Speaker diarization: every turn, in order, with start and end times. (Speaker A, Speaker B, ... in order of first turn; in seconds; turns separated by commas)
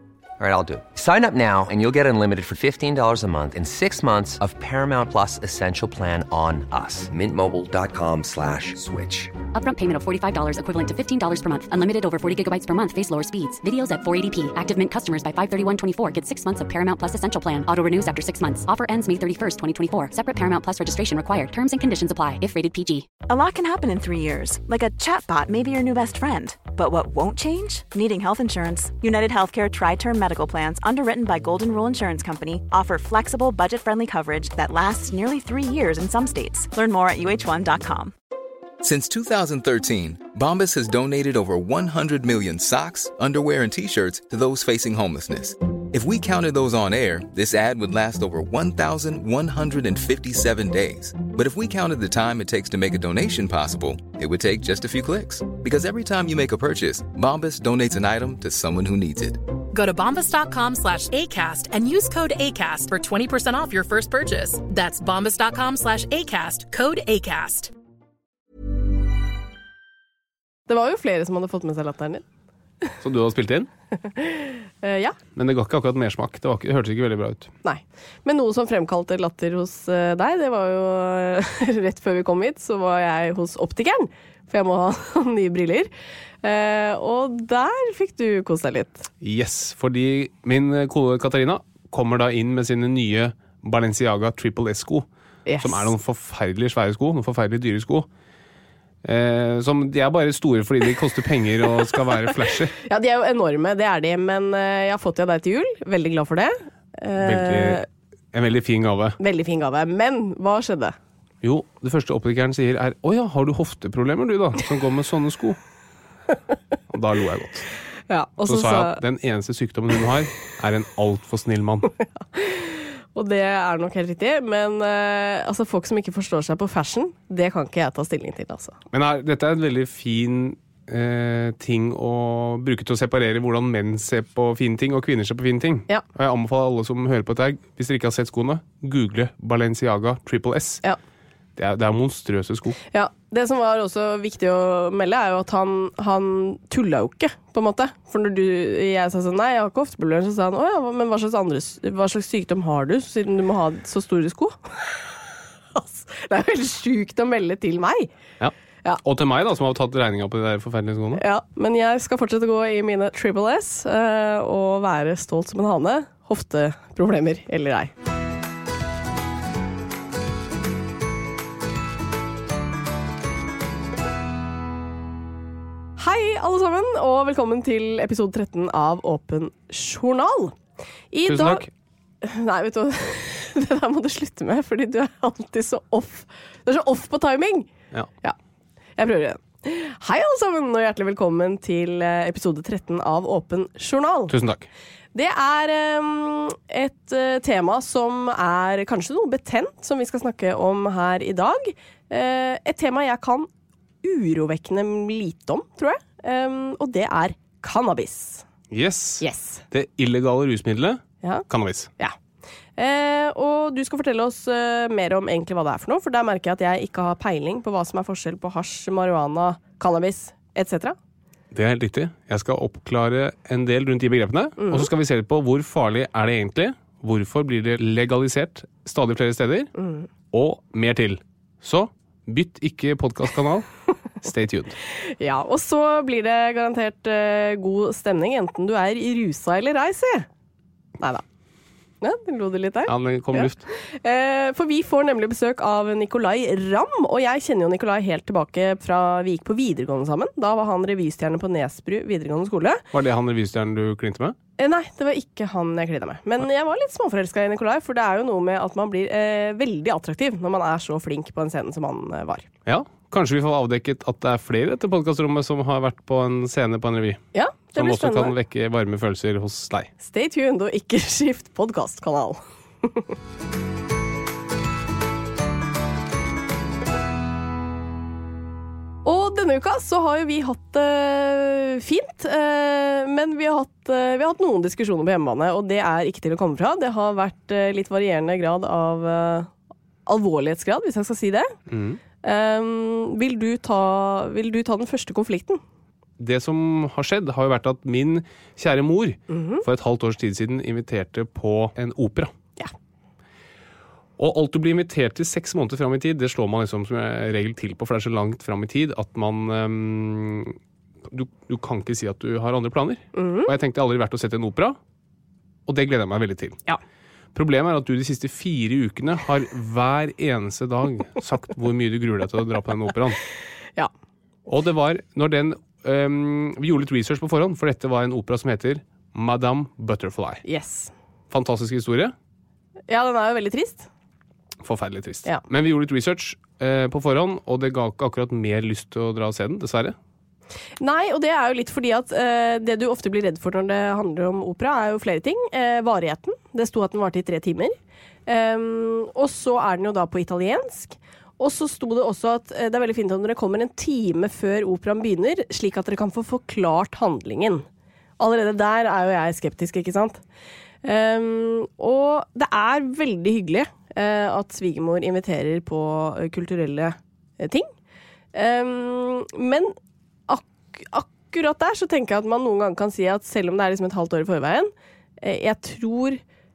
Speaker A: 0.4-9.4, Speaker B: 9.5-23.1, Speaker C: 23.3-38.1, Speaker D: 38.8-59.4, Speaker E: 59.7-67.7, Speaker F: 70.7-72.2, Speaker G: 73.0-73.7, Speaker F: 74.2-75.2, Speaker G: 75.4-77.5, Speaker F: 77.6-85.9, Speaker F: 86.4-89.1, Speaker G: 89.2-95.1, Speaker F: 95.5-95.9, Speaker G: 95.6-98.1, Speaker G: 99.0-102.7, Speaker F: 102.8-107.8, Speaker G: 107.2-107.8, Speaker G: 108.3-109.2, Speaker F: 109.2-111.0, Speaker G: 111.4-115.6, Speaker G: 116.9-117.7, Speaker F: 118.1-119.0, Speaker G: 118.5-121.9, Speaker F: 122.3-128.8, Speaker G: 128.9-140.8, Speaker G: 141.6-142.8, Speaker F: 142.9-155.1, Speaker F: 155.8-158.1, Speaker G: 158.4-161.2, Speaker F: 161.2-167.9, Speaker F: 176.0-180.6, Speaker F: 181.1-181.7, Speaker G: 181.3-181.7, Speaker F: 182.2-187.7, Speaker F: 189.0-194.3, Speaker G: 194.3-194.7, Speaker F: 195.1-203.5, Speaker F: 204.0-208.4, Speaker G: 208.7-211.9, Speaker F: 209.2-209.6, Speaker F: 212.8-221.0, Speaker G: 221.5-229.7, Speaker F: 224.6-224.9, Speaker F: 229.8-230.1, Speaker G: 230.3-233.7, Speaker G: 234.2-234.8, Speaker F: 235.0-240.3, Speaker F: 241.0-241.2, Speaker F: 242.0-252.8, Speaker G: 242.9-243.7, Speaker G: 252.9-254.4, Speaker F: 254.6-262.5, Speaker G: 262.7-267.2, Speaker F: 267.3-268.3, Speaker G: 267.8-269.9, Speaker F: 270.0-273.1, Speaker F: 279.1-289.5, Speaker F: 290.1-291.6, Speaker G: 291.7-292.0, Speaker F: 292.2-295.6, Speaker G: 296.2-302.3, Speaker F: 299.3-299.6, Speaker G: 304.2-314.8, Speaker F: 313.1-313.5, Speaker G: 315.7-316.6, Speaker G: 317.4-323.2, Speaker G: 324.5-330.4, Speaker F: 330.4-330.9, Speaker G: 331.3-332.1, Speaker F: 332.9-333.9, Speaker G: 334.6-340.0, Speaker F: 340.8-347.8, Speaker F: 348.3-357.6, Speaker F: 358.2-360.2, Speaker F: 360.8-367.7, Speaker F: 368.3-369.8, Speaker F: 370.3-376.2